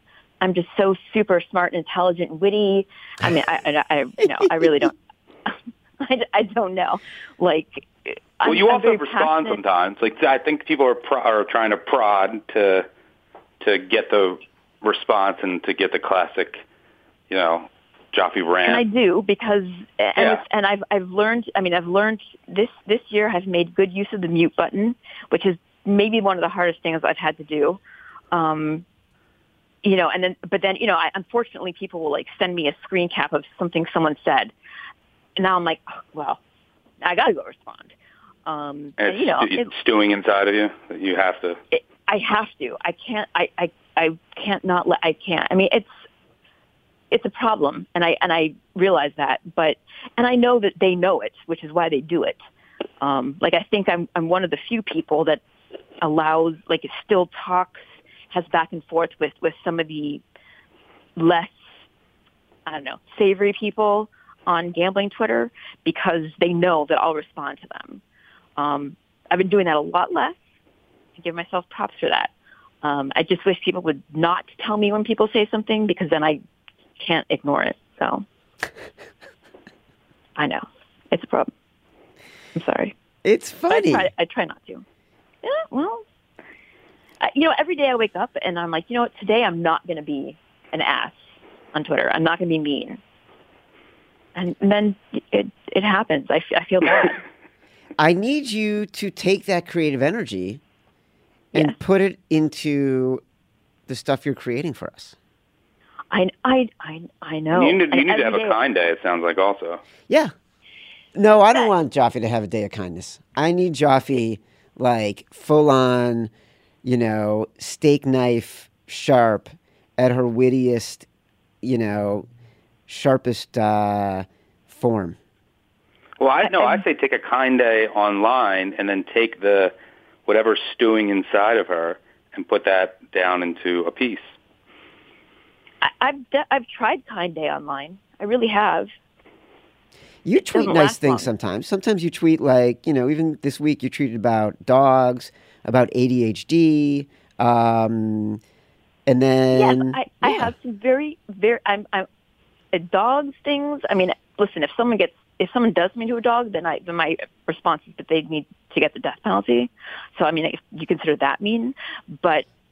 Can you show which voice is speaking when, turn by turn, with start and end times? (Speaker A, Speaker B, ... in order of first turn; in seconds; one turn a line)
Speaker A: 0.4-5.0
Speaker B: 4.4-4.7
Speaker A: 5.5-9.6
Speaker C: 8.4-12.9
Speaker C: 13.6-16.6
Speaker C: 17.3-18.8
Speaker A: 18.6-27.8
Speaker C: 20.2-20.4
Speaker A: 28.3-28.8
Speaker A: 29.8-34.5
Speaker A: 35.4-36.4
Speaker A: 37.0-37.9
Speaker A: 38.5-39.7
Speaker C: 39.0-41.6
Speaker A: 41.7-45.9
Speaker A: 47.1-52.4
Speaker A: 53.0-55.4
Speaker A: 56.0-60.2
Speaker A: 61.2-61.8
Speaker A: 62.7-68.0
Speaker A: 68.6-70.4
Speaker A: 71.2-72.3
Speaker A: 72.8-76.4
Speaker A: 77.0-78.2
Speaker A: 80.4-81.5
Speaker A: 82.5-82.9
Speaker B: 83.2-84.1
Speaker A: 83.7-84.8
Speaker A: 85.4-86.0
Speaker A: 87.2-93.0
Speaker A: 94.3-97.2
Speaker B: 98.0-100.6
Speaker B: 101.5-103.2
Speaker B: 103.9-105.2
Speaker A: 106.1-108.5
Speaker C: 107.5-109.8
Speaker B: 111.1-116.3
Speaker B: 116.8-121.1
Speaker B: 121.6-122.2
Speaker B: 122.9-125.2
Speaker C: 126.2-129.7
Speaker A: 126.4-126.8
Speaker C: 130.3-134.3
Speaker A: 135.8-138.9
Speaker B: 140.2-148.4
Speaker A: 140.5-141.3
Speaker B: 149.1-150.5
Speaker A: 149.5-152.1
Speaker A: 152.7-162.4